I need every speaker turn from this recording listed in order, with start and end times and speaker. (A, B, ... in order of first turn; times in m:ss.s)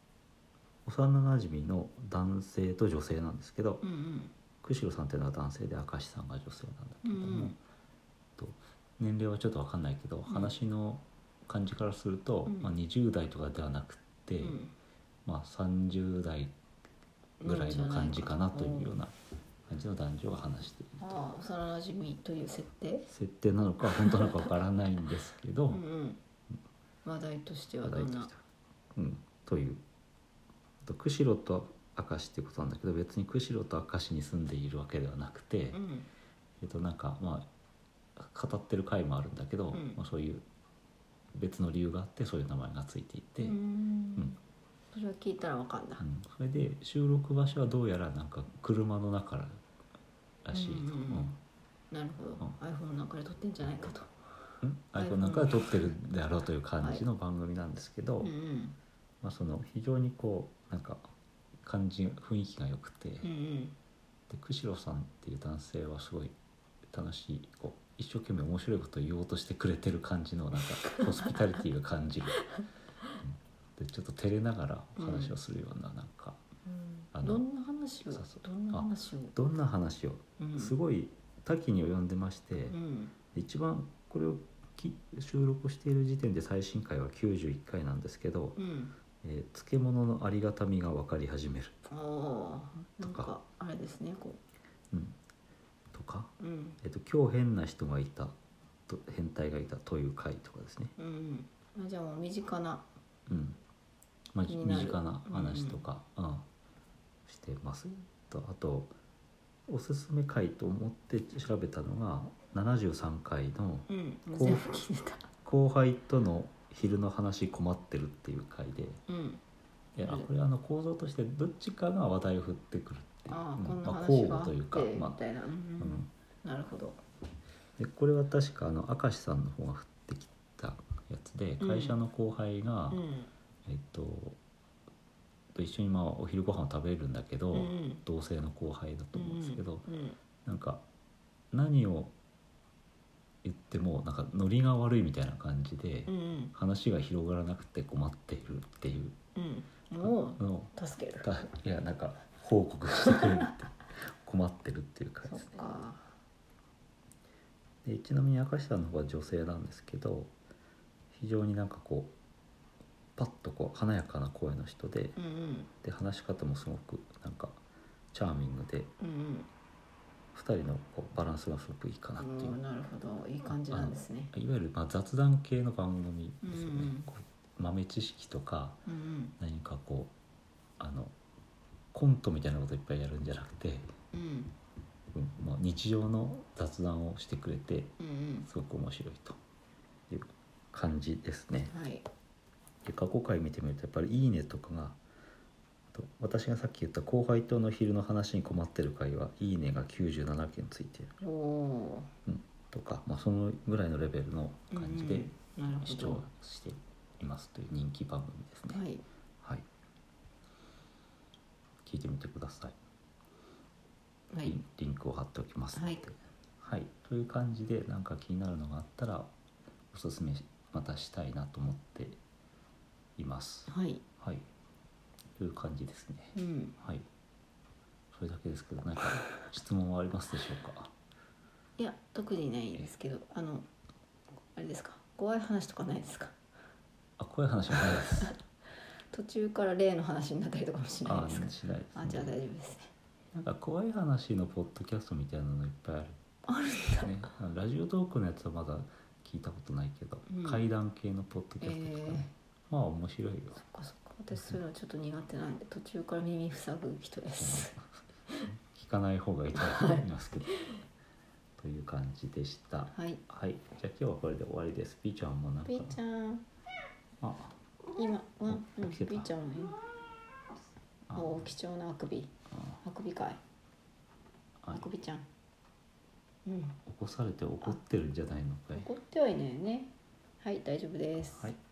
0:00.8-0:03.8 A
0:03.8-0:04.3 B
0:04.6-0:07.6 A
0:07.0-0:07.6 B
0:08.4-0:14.6 A
0:10.3-0:10.5 B
0:14.4-0:14.7 B
0:15.2-0:16.5 A
0:17.4-0:18.9 B
0:17.4-0:19.1 A
0:19.7-0:21.1 A
0:21.0-0:23.1 B
0:23.1-0:25.8 A
0:24.0-0:24.5 B
0:25.7-0:26.2 B
0:27.0-0:28.3 B
0:27.8-0:28.4 A
0:28.9-0:29.8 A
0:30.8-0:35.8 A
0:35.7-0:36.1 B
0:36.6-0:37.5 A
0:38.2-0:40.4 A
0:39.7-0:40.0 B
0:41.3-0:43.6 A
0:43.4-0:44.4 B
0:44.9-0:46.0 B
0:46.0-0:49.6 A
0:50.4-0:51.4 A
0:50.5-0:51.4 B
0:51.9-0:54.1 B
0:54.6-0:58.3 A
0:55.0-0:56.0 B
0:58.2-0:58.8 B
0:59.2-1:01.1 A
1:01.6-1:03.3 A
1:03.2-1:03.8 B
1:04.3-1:06.3 A
1:06.9-1:12.4 A
1:10.8-1:11.3 B
1:13.2-1:16.4 A
1:15.0-1:15.3 B
1:16.7-1:19.3 B
1:17.1-1:17.4 A
1:18.1-1:22.8 A
1:20.4-1:20.7 B
1:22.7-1:23.1 B
1:23.3-1:28.6 A
1:28.6-1:29.0 B
1:29.2-1:31.7 A
1:31.9-1:34.4 B
1:33.0-1:33.3 A
1:34.9-1:35.2 A
1:35.9-1:38.3 A
1:36.4-1:36.8 B
1:38.9-1:40.9 A
1:41.0-1:42.8 B
1:43.3-1:43.6 A
1:44.3-1:46.4 A
1:44.5-1:45.8 B
1:47.2-1:48.9 A
1:49.7-1:54.7 A
1:53.9-1:55.3 B
1:55.4-1:59.0 A
1:59.1-1:59.4 B
2:00.0-2:05.2 A
2:00.0-2:00.3 B
2:03.3-2:07.0 B
2:05.8-2:06.1 A
2:07.8-2:13.0 A
2:11.6-2:12.0 B
2:12.9-2:13.3 B
2:13.6-2:14.4 A
2:15.5-2:19.8 A
2:17.5-2:18.0 B
2:19.1-2:20.2 B
2:20.4-2:20.8 A
2:21.5-2:22.1 A
2:23.4-2:29.1 A
2:26.0-2:26.5 B
2:29.4-2:31.3 B
2:30.0-2:35.6 A
2:35.2-2:36.1 B
2:37.8-2:40.3 A
2:41.1-2:42.1 A
2:43.2-2:45.2 A
2:45.2-2:45.7 B
2:45.8-2:47.6 A
2:48.1-2:48.9 A
2:49.0-2:49.5 B
2:50.3-2:52.6 A
2:52.2-2:54.3 B
2:53.4-2:58.8 A
2:56.4-2:57.1 B
2:58.8-2:59.4 B
2:59.4-3:00.1 A
3:00.8-3:01.1 A
3:01.9-3:03.9 A
3:04.1-3:04.6 B
3:05.1-3:09.4 A
3:08.0-3:08.5 B
3:10.1-3:11.7 A
3:11.7-3:12.1 B
3:12.8-3:15.0 A
3:15.9-3:21.1 A
3:21.2-3:22.1 B
3:22.2-3:28.8 A
3:24.7-3:26.2 B
3:28.7-3:29.0 B
3:31.8-3:32.8 A
3:34.3-3:34.6 B
3:34.4-3:39.3 A
3:35.7-3:36.0 B
3:39.9-3:42.2 A
3:43.2-3:44.4 A
3:43.7-3:44.0 B
3:45.4-3:47.0 A
3:46.3-3:46.8 B
3:48.1-3:50.9 A
3:51.8-3:53.7 B
3:54.5-3:56.3 B
3:57.2-3:58.4 A
3:59.1-4:02.9 B
4:01.0-4:02.4 A
4:03.3-4:06.2 A
4:06.4-4:07.2 B
4:07.0-4:13.6 A
4:10.3-4:10.6 B
4:11.6-4:12.3 B
4:13.6-4:17.7 B
4:17.4-4:17.9 A
4:18.7-4:20.8 A
4:19.6-4:20.0 B
4:21.6-4:26.0 A
4:22.9-4:23.2 B
4:25.6-4:26.4 B
4:27.2-4:27.6 A
4:27.9-4:29.8 B
4:28.5-4:29.3 A
4:31.1-4:31.5 A
4:31.1-4:33.4 B
4:34.7-4:35.3 B
4:36.4-4:36.8 B
4:36.8-4:38.9 A
4:38.7-4:41.5 B
4:41.2-4:41.6 A